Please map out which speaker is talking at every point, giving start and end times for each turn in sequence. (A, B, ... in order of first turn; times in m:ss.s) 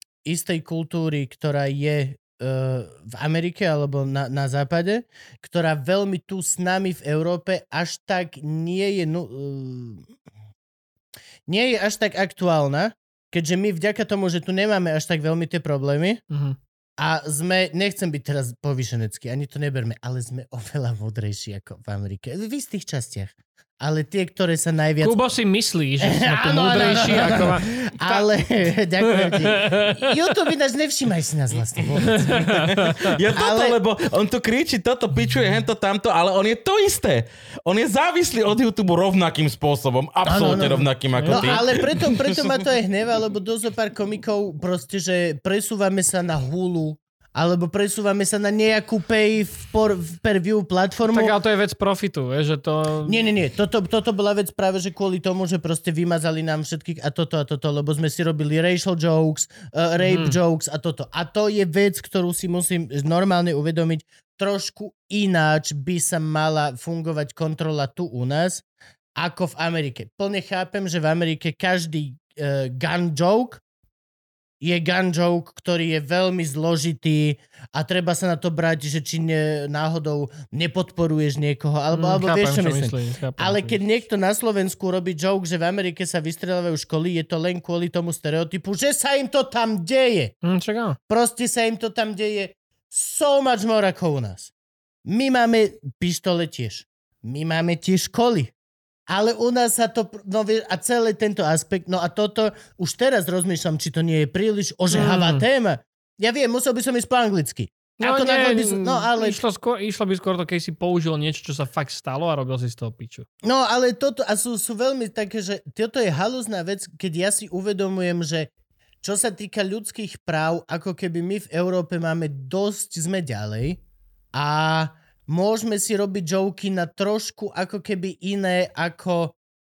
0:00.2-0:10.1 A
0:11.5-0:16.2 A
0:16.3-0:16.6 B
0:17.0-0:25.2 A
0:25.0-0:28.2 B
0:26.0-0:33.8 A
0:29.0-0:30.1 B
0:32.1-0:33.1 B
0:32.7-0:42.5 C
0:40.2-0:51.3 A
0:41.2-0:41.6 B
0:51.1-0:53.2 B
0:53.0-1:08.6 A
1:00.0-1:00.4 B
1:09.2-1:13.6 A
1:14.6-1:30.3 A
1:21.9-1:23.8 B
1:30.4-1:31.0 B
1:31.1-1:34.5 A
1:35.0-1:38.5 A
1:39.1-1:49.4 A
1:44.9-1:45.4 B
1:48.0-1:53.2 B
1:53.4-1:58.5 A
1:59.0-2:03.8 A
2:04.3-2:09.3 A